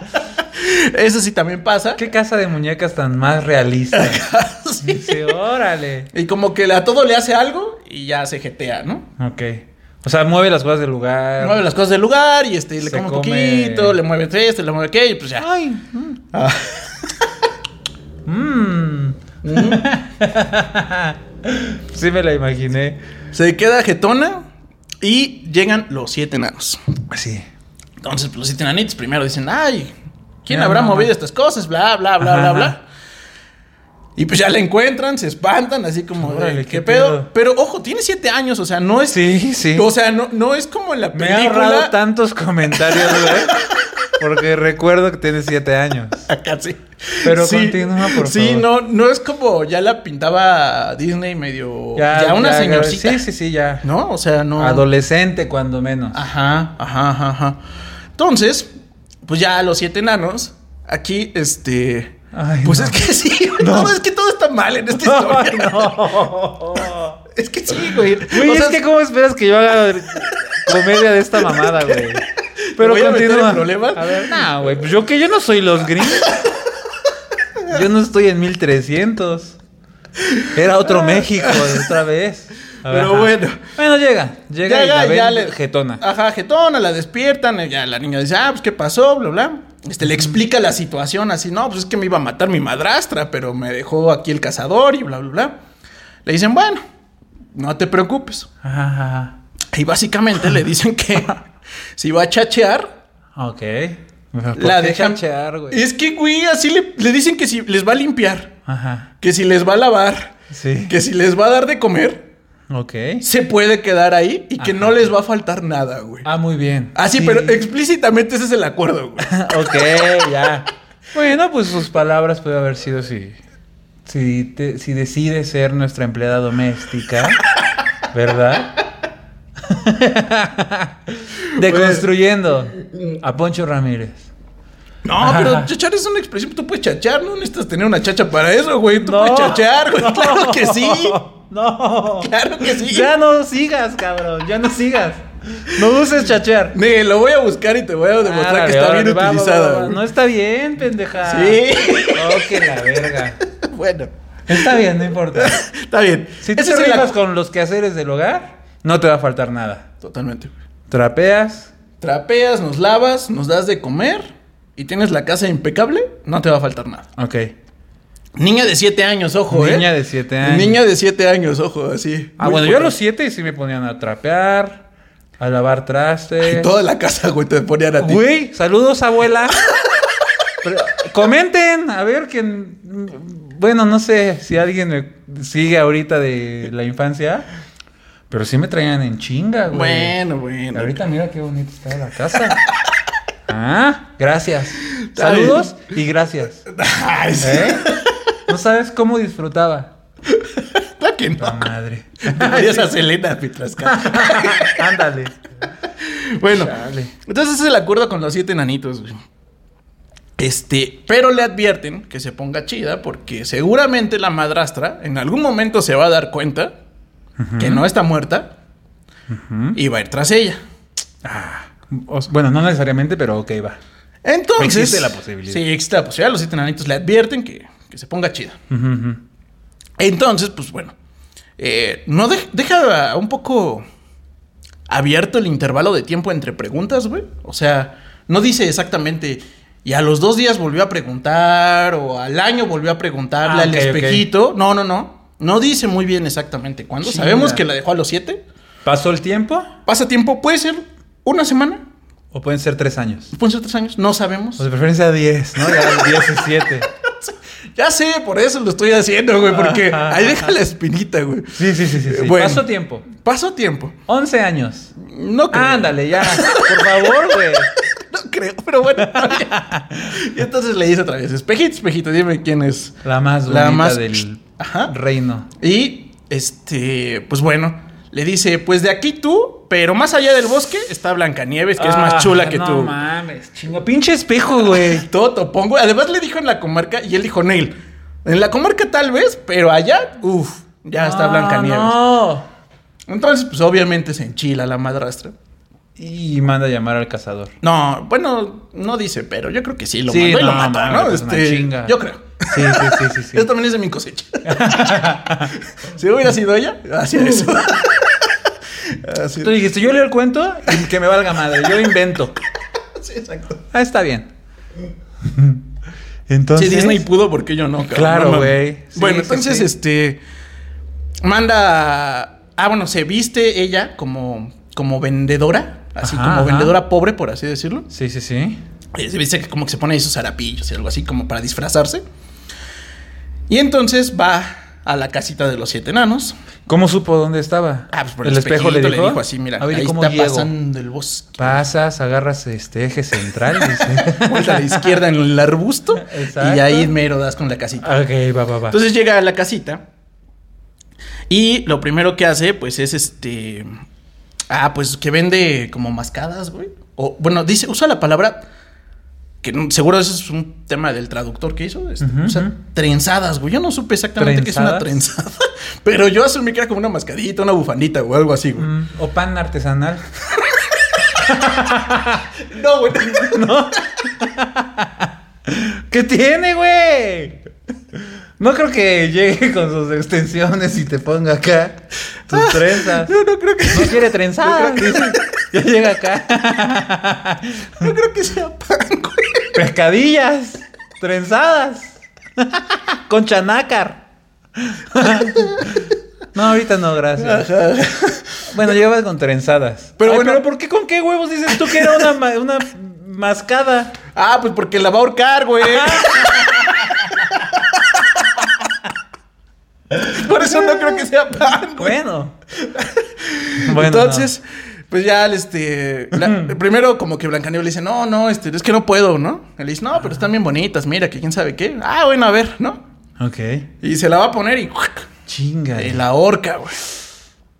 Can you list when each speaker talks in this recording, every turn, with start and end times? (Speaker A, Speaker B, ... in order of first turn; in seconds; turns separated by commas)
Speaker A: 0.4-2.0, Speaker B: 2.0-4.3, Speaker A: 3.9-5.3, Speaker B: 4.8-6.1, Speaker A: 6.1-9.1, Speaker B: 9.2-11.6, Speaker A: 11.4-15.5, Speaker B: 12.8-14.0, Speaker B: 15.4-16.2, Speaker A: 16.3-17.3, Speaker B: 18.2-23.0, Speaker A: 19.4-19.9, Speaker A: 23.3-24.5, Speaker A: 25.0-26.8, Speaker B: 27.1-27.5, Speaker A: 28.0-29.9, Speaker A: 30.4-32.8, Speaker B: 30.5-31.1, Speaker B: 32.2-32.8, Speaker A: 34.2-42.0, Speaker B: 36.2-37.3, Speaker B: 39.1-39.9, Speaker B: 41.1-46.3, Speaker A: 42.7-44.2, Speaker A: 46.3-53.2, Speaker B: 47.2-48.7, Speaker B: 52.0-53.9, Speaker A: 53.8-54.9, Speaker B: 54.6-56.2, Speaker A: 56.1-57.6, Speaker A: 58.2-58.7, Speaker A: 59.3-66.1, Speaker B: 62.3-63.1, Speaker B: 63.6-64.0, Speaker B: 65.0-67.2, Speaker A: 67.3-68.8, Speaker B: 67.7-72.3, Speaker A: 71.6-72.0, Speaker A: 72.6-74.5, Speaker B: 72.8-76.4, Speaker A: 76.2-76.5, Speaker B: 77.7-79.6, Speaker A: 80.2-81.9, Speaker B: 80.5-86.0, Speaker A: 82.9-83.7, Speaker A: 84.6-95.5, Speaker B: 90.1-90.4, Speaker A: 96.2-96.8, Speaker A: 97.5-98.5, Speaker B: 98.6-99.3, Speaker A: 99.7-101.5, Speaker A: 102.0-103.0, Speaker B: 103.3-105.8, Speaker A: 104.6-108.5, Speaker B: 108.7-109.1, Speaker A: 109.2-110.3, Speaker B: 110.5-110.9, Speaker A: 110.9-112.3, Speaker B: 112.7-113.2, Speaker A: 113.2-116.3, Speaker B: 114.6-115.1, Speaker B: 116.2-117.6, Speaker A: 117.0-119.4, Speaker B: 119.2-123.4, Speaker B: 124.1-127.4, Speaker B: 128.1-128.8, Speaker B: 129.6-134.3, Speaker A: 131.6-132.1, Speaker A: 135.1-141.2, Speaker B: 135.2-135.7, Speaker B: 139.0-146.8, Speaker A: 142.2-143.1, Speaker A: 146.7-150.0, Speaker B: 148.2-153.4, Speaker A: 151.2-152.7, Speaker A: 153.5-154.8, Speaker B: 154.5-155.6, Speaker A: 155.3-157.1, Speaker B: 156.4-159.9, Speaker A: 160.0-160.5, Speaker B: 160.9-161.7, Speaker A: 162.0-167.1, Speaker B: 167.2-167.5, Speaker A: 168.4-169.9, Speaker B: 169.5-170.8, Speaker A: 170.4-172.9, Speaker B: 172.4-174.8, Speaker B: 175.4-176.7, Speaker A: 176.4-178.2, Speaker B: 178.0-179.6, Speaker B: 180.6-187.5, Speaker B: 188.3-190.2, Speaker A: 189.7-191.0, Speaker B: 190.7-192.6, Speaker B: 193.5-196.7, Speaker A: 194.8-195.7, Speaker A: 196.7-198.1, Speaker B: 197.4-199.9, Speaker A: 200.3-204.9, Speaker B: 201.4-203.0, Speaker B: 203.8-205.4, Speaker A: 205.9-209.2, Speaker B: 206.5-207.1, Speaker A: 210.4-216.7, Speaker B: 217.4-217.8, Speaker A: 217.6-218.5, Speaker B: 219.3-219.8, Speaker A: 219.8-220.6, Speaker B: 221.2-223.8, Speaker A: 224.2-228.6, Speaker B: 224.6-225.6, Speaker B: 228.7-229.2, Speaker A: 230.0-230.9, Speaker A: 231.6-233.8, Speaker A: 234.9-248.4, Speaker B: 243.4-244.3, Speaker B: 247.0-247.6, Speaker B: 248.8-249.7, Speaker A: 249.9-251.8, Speaker B: 252.3-253.3, Speaker A: 253.3-254.7, Speaker B: 254.6-256.9, Speaker A: 255.6-264.0, Speaker B: 259.5-260.5, Speaker B: 261.6-263.1, Speaker B: 264.1-264.9, Speaker A: 265.0-274.9, Speaker B: 265.5-267.7, Speaker B: 269.0-270.3, Speaker B: 273.0-275.5, Speaker A: 275.6-283.0, Speaker B: 281.8-285.1, Speaker A: 284.7-292.0, Speaker B: 291.0-292.5, Speaker A: 293.1-295.3, Speaker B: 296.0-297.5, Speaker A: 297.6-309.6, Speaker B: 300.1-301.9, Speaker B: 302.5-303.5, Speaker B: 304.4-305.6, Speaker B: 309.4-312.4, Speaker A: 313.0-313.6, Speaker B: 313.7-314.3, Speaker B: 315.2-315.6, Speaker B: 316.3-317.0, Speaker A: 316.6-320.2, Speaker B: 317.8-319.7, Speaker A: 321.2-327.9, Speaker B: 326.0-326.8, Speaker B: 327.9-328.6, Speaker A: 328.9-332.0, Speaker A: 333.5-336.4, Speaker B: 336.7-340.5, Speaker A: 337.9-341.6, Speaker B: 341.4-345.0, Speaker A: 343.6-347.9, Speaker B: 346.0-346.9, Speaker B: 347.8-348.8, Speaker A: 348.7-349.8, Speaker A: 351.3-353.7, Speaker A: 354.5-358.5, Speaker A: 359.4-368.7, Speaker B: 362.0-362.5, Speaker B: 364.2-365.0, Speaker B: 368.6-370.1, Speaker B: 371.1-372.4, Speaker A: 372.4-373.5, Speaker B: 373.0-377.4, Speaker B: 377.9-383.1, Speaker A: 382.3-385.2, Speaker B: 383.7-387.9, Speaker A: 387.8-389.6, Speaker B: 389.6-397.5, Speaker A: 397.2-398.6, Speaker B: 398.5-403.9, Speaker A: 400.0-400.4, Speaker A: 401.5-402.1, Speaker A: 404.1-408.5, Speaker B: 405.6-407.3, Speaker B: 409.9-411.1, Speaker A: 410.0-412.0, Speaker B: 411.8-412.4, Speaker A: 412.6-422.8, Speaker B: 413.6-414.3, Speaker B: 416.1-416.5, Speaker B: 423.2-423.7, Speaker A: 423.8-425.1, Speaker B: 425.3-426.0, Speaker A: 425.8-426.8